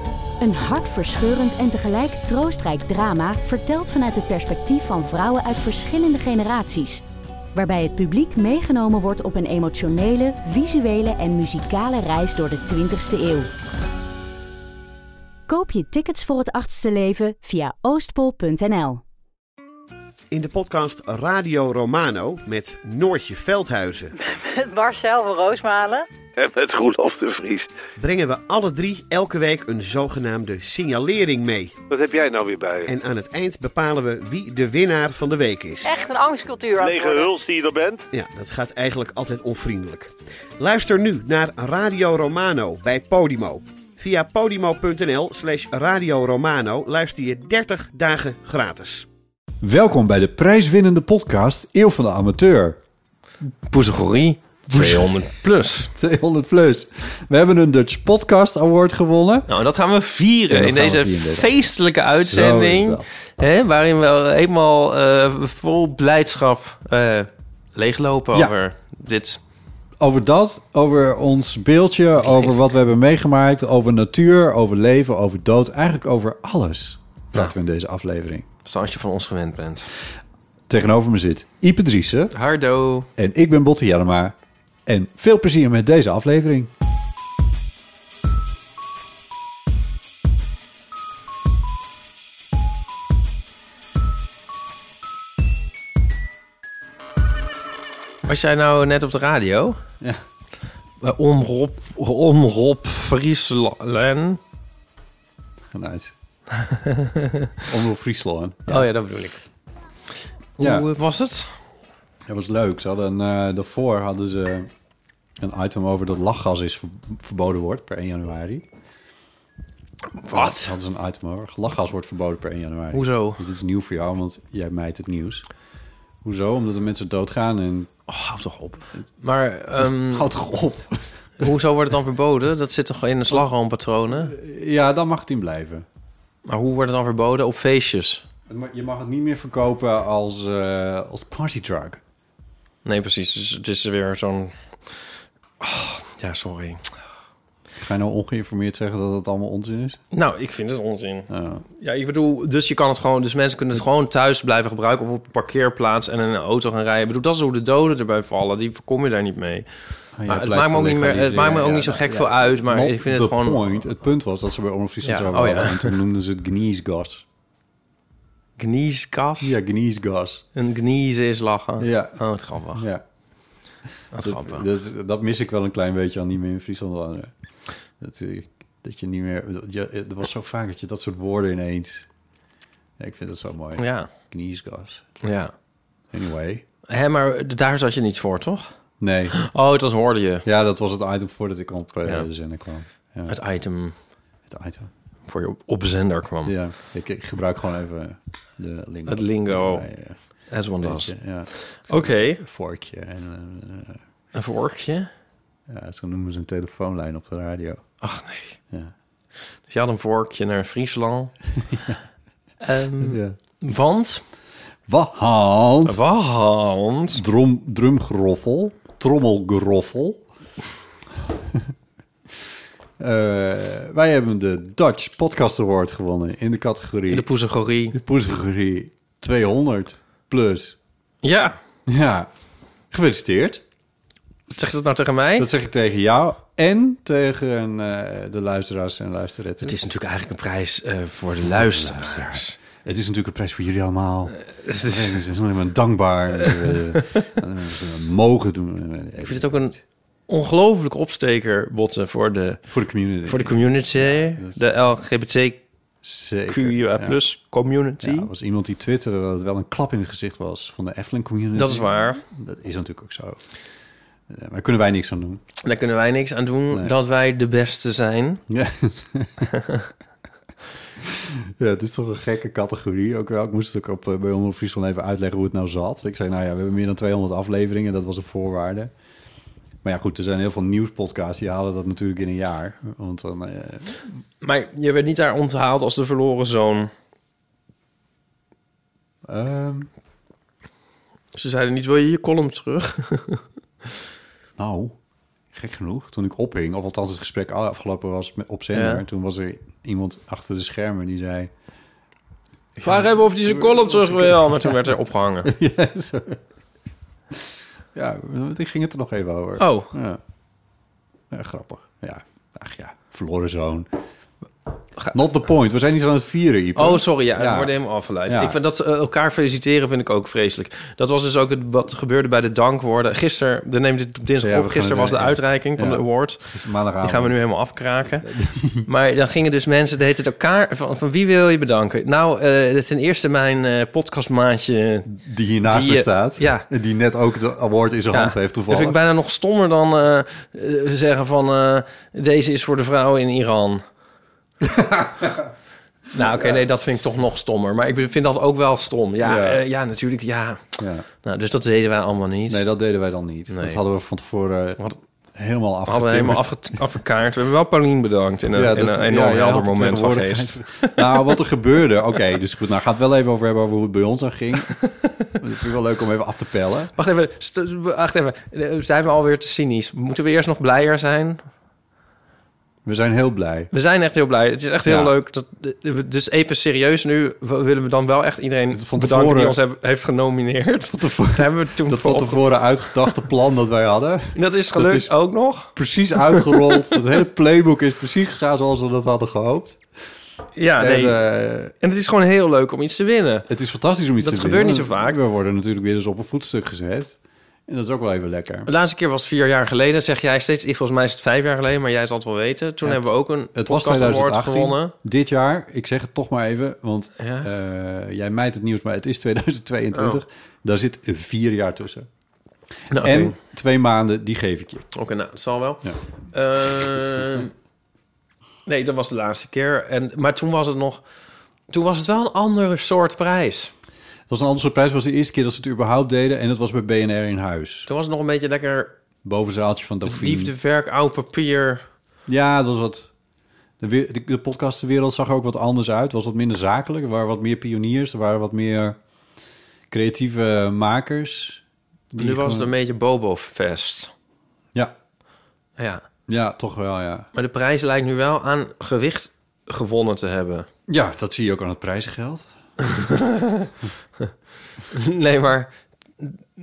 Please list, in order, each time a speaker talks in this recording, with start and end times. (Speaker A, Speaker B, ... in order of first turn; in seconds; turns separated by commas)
Speaker A: 0.4-7.0, Speaker A: 7.5-13.5, Speaker A: 15.5-19.0, Speaker B: 20.3-24.1, Speaker C: 24.2-26.1, Speaker D: 26.4-27.7, Speaker B: 28.0-31.8, Speaker D: 31.9-32.9, Speaker B: 32.9-35.9, Speaker C: 35.8-37.4, Speaker D: 36.8-38.1, Speaker B: 38.1-49.1, Speaker E: 49.6-52.8, Speaker F: 53.7-55.9, Speaker E: 54.7-55.2, Speaker E: 56.0-59.5, Speaker F: 59.5-69.4, Speaker E: 60.5-61.5, Speaker E: 62.3-63.1, Speaker E: 70.0-78.5, Speaker F: 78.7-79.9, Speaker E: 80.7-82.3, Speaker F: 82.3-83.1, Speaker E: 83.2-84.3, Speaker E: 84.9-86.7, Speaker F: 98.2-99.8, Speaker F: 101.0-104.4, Speaker E: 105.7-106.1, Speaker F: 106.5-107.7, Speaker E: 107.7-108.9, Speaker F: 108.7-109.4, Speaker F: 110.6-111.5, Speaker E: 110.6-110.9, Speaker E: 112.3-114.7, Speaker E: 115.4-118.7, Speaker F: 120.2-120.7, Speaker E: 120.3-125.5, Speaker F: 122.9-123.4, Speaker E: 126.2-127.9, Speaker F: 128.1-130.3, Speaker E: 129.8-131.5, Speaker F: 131.4-134.3, Speaker E: 134.1-135.9, Speaker F: 136.5-138.2, Speaker E: 138.5-142.0, Speaker F: 142.8-145.0, Speaker F: 145.6-146.9, Speaker E: 147.8-150.0, Speaker F: 150.1-151.3, Speaker E: 151.3-151.7, Speaker F: 151.8-159.7, Speaker E: 160.2-167.2, Speaker F: 160.3-163.8, Speaker F: 165.0-166.0, Speaker F: 168.6-169.6, Speaker E: 169.4-170.4, Speaker F: 170.6-172.9, Speaker E: 171.8-172.2, Speaker E: 172.7-173.0, Speaker F: 174.1-174.7, Speaker E: 174.2-177.3, Speaker E: 178.0-182.1, Speaker E: 183.0-185.1, Speaker F: 183.8-184.1, Speaker F: 185.2-185.5, Speaker E: 186.1-186.7, Speaker F: 186.9-188.7, Speaker E: 189.0-189.4, Speaker F: 189.4-190.5, Speaker E: 190.4-193.4, Speaker F: 193.3-193.9, Speaker E: 194.5-194.9, Speaker F: 195.3-196.6, Speaker E: 196.4-200.2, Speaker F: 199.1-199.9, Speaker F: 200.5-202.4, Speaker E: 200.8-204.0, Speaker F: 204.3-205.1, Speaker E: 205.7-207.8, Speaker F: 208.0-208.6, Speaker F: 209.7-211.3, Speaker E: 211.7-212.0, Speaker F: 212.6-214.2, Speaker E: 213.0-213.4, Speaker E: 214.9-216.0, Speaker F: 215.8-217.2, Speaker E: 217.1-220.2, Speaker E: 223.0-227.3, Speaker F: 227.1-228.0, Speaker E: 227.9-230.8, Speaker F: 231.2-231.6, Speaker E: 231.9-232.3, Speaker E: 232.9-233.6, Speaker F: 234.5-235.5, Speaker E: 235.4-239.8, Speaker F: 239.6-242.6, Speaker E: 241.4-249.8, Speaker F: 244.7-245.2, Speaker F: 246.6-247.3, Speaker F: 249.2-249.8, Speaker F: 250.3-252.7, Speaker E: 252.7-254.6, Speaker F: 253.3-255.6, Speaker E: 256.0-257.2, Speaker F: 256.5-258.3, Speaker E: 258.0-263.4, Speaker F: 261.6-262.2, Speaker E: 264.3-265.4, Speaker F: 265.6-268.4, Speaker E: 268.5-269.5, Speaker F: 269.5-269.9, Speaker E: 271.0-278.9, Speaker E: 279.8-284.0, Speaker F: 284.4-286.9, Speaker E: 289.3-289.9, Speaker F: 291.3-293.4, Speaker E: 294.6-295.0, Speaker E: 295.5-301.5, Speaker F: 298.7-299.0, Speaker E: 302.8-304.9, Speaker F: 302.8-305.5, Speaker E: 305.4-306.4, Speaker E: 307.9-310.2, Speaker F: 309.6-309.9, Speaker E: 311.3-313.9, Speaker E: 315.1-317.7, Speaker F: 316.8-326.5, Speaker E: 318.3-318.6, Speaker E: 324.4-327.4, Speaker F: 327.0-335.1, Speaker E: 328.2-328.9, Speaker E: 335.1-339.0, Speaker F: 335.7-336.7, Speaker F: 338.1-343.9, Speaker E: 344.6-345.5, Speaker F: 346.1-352.6, Speaker E: 346.1-346.6, Speaker E: 349.2-349.6, Speaker E: 350.8-351.1, Speaker E: 352.5-354.8, Speaker F: 353.5-353.8, Speaker E: 355.4-356.6, Speaker F: 355.9-361.4, Speaker E: 358.5-364.8, Speaker F: 364.7-365.3, Speaker E: 365.4-366.9, Speaker F: 367.0-371.4, Speaker E: 372.9-373.7, Speaker F: 373.7-383.2, Speaker E: 374.9-375.1, Speaker E: 378.7-379.6, Speaker E: 380.9-385.1, Speaker F: 384.3-385.7, Speaker E: 385.8-389.8, Speaker F: 386.3-387.1, Speaker F: 390.6-391.2, Speaker E: 390.8-391.7, Speaker F: 391.8-393.5, Speaker E: 393.5-397.2, Speaker F: 394.2-395.2, Speaker E: 397.7-398.7, Speaker F: 398.7-404.9, Speaker E: 402.8-412.1, Speaker F: 407.2-407.5, Speaker F: 409.9-410.2, Speaker F: 412.9-413.4, Speaker E: 412.9-414.9, Speaker F: 414.9-417.5, Speaker F: 418.7-421.0, Speaker F: 421.7-423.7, Speaker E: 424.3-427.9, Speaker F: 427.9-428.9, Speaker E: 429.2-430.5, Speaker F: 430.1-431.8, Speaker E: 432.3-433.1, Speaker E: 433.8-439.0, Speaker E: 439.9-442.7, Speaker F: 442.2-444.1, Speaker F: 445.8-446.0, Speaker E: 446.3-447.3, Speaker F: 447.4-450.7, Speaker E: 450.9-452.5, Speaker F: 452.8-453.7, Speaker F: 454.9-456.4